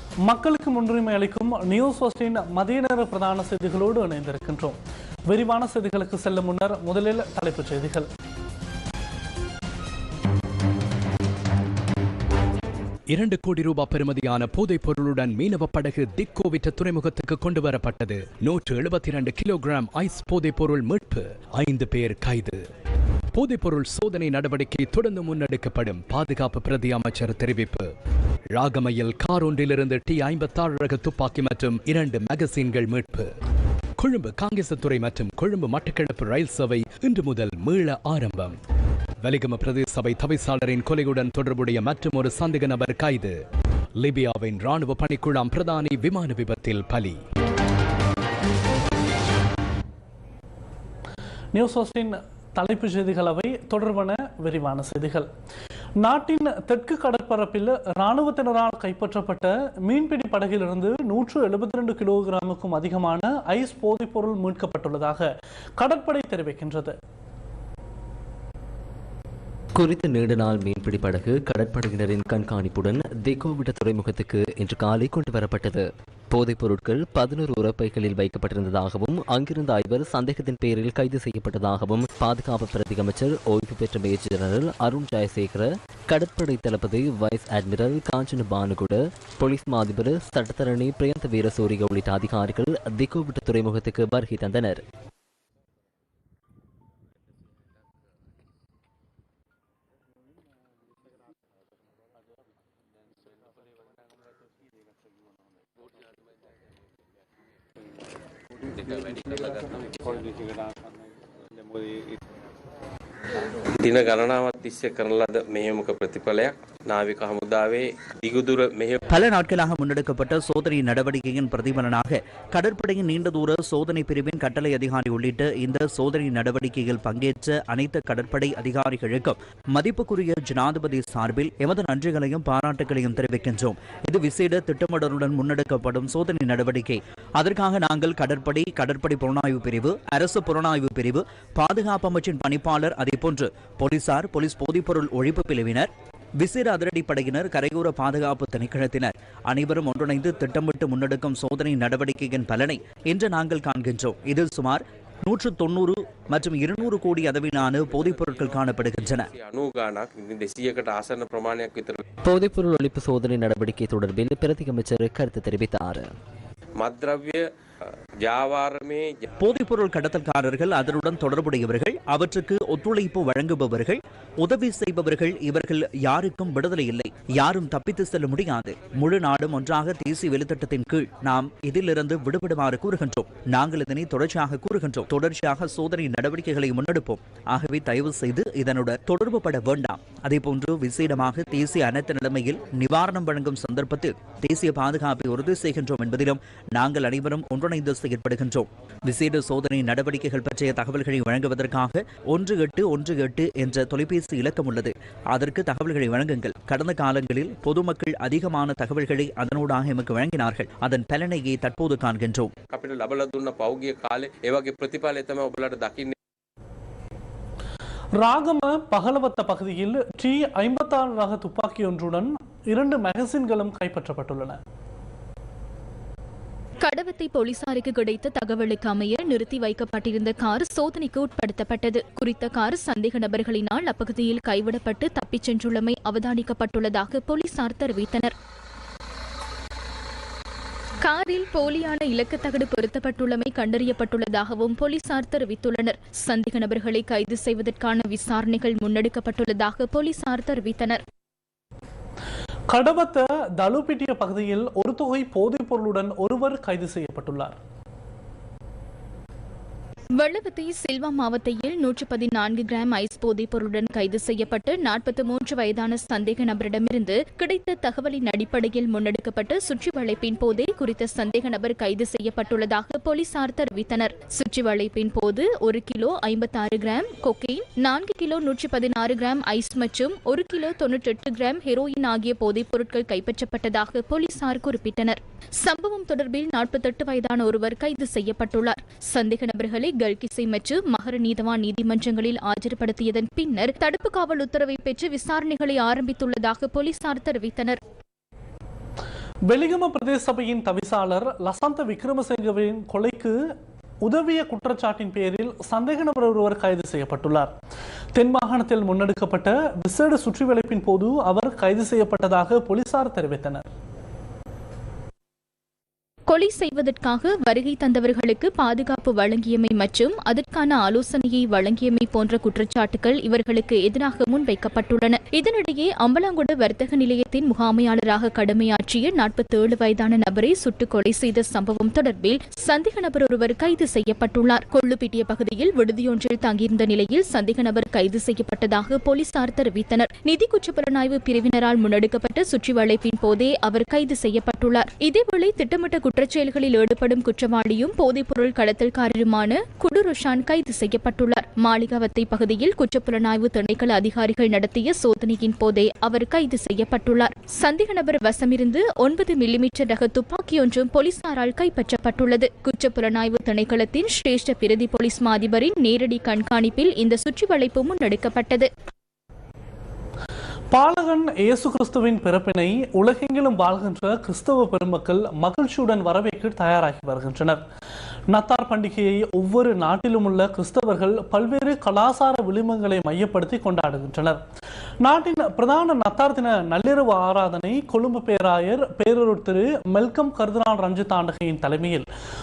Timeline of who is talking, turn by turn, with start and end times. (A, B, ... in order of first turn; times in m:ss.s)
0:00.3-0:08.1 A
0:13.1-0:22.6 B
0:23.3-0:27.9 B
0:28.5-0:33.3 B
0:34.0-0:38.6 B
0:39.2-0:43.4 B
0:44.0-0:47.2 B
0:51.5-0:55.3 A
0:56.0-1:05.3 A
1:05.8-1:07.0 A
1:09.8-1:34.8 C
1:48.7-1:50.2 D
1:53.8-1:59.0 D
1:59.1-2:39.3 E
2:37.8-2:42.0 D
2:42.2-2:46.1 C
2:46.8-2:47.4 D
2:48.2-2:49.2 D
2:49.4-3:32.5 E
3:32.7-3:36.1 D
3:38.2-3:44.6 A
3:46.8-3:58.3 F
4:01.0-4:11.0 F
4:12.7-4:17.6 A
4:20.2-4:57.8 F
4:59.5-5:03.4 A
5:04.0-5:07.5 A
5:08.2-5:13.6 A
5:16.3-6:08.7 F
6:10.7-6:17.6 A
6:18.3-6:24.4 A
6:25.0-6:32.1 A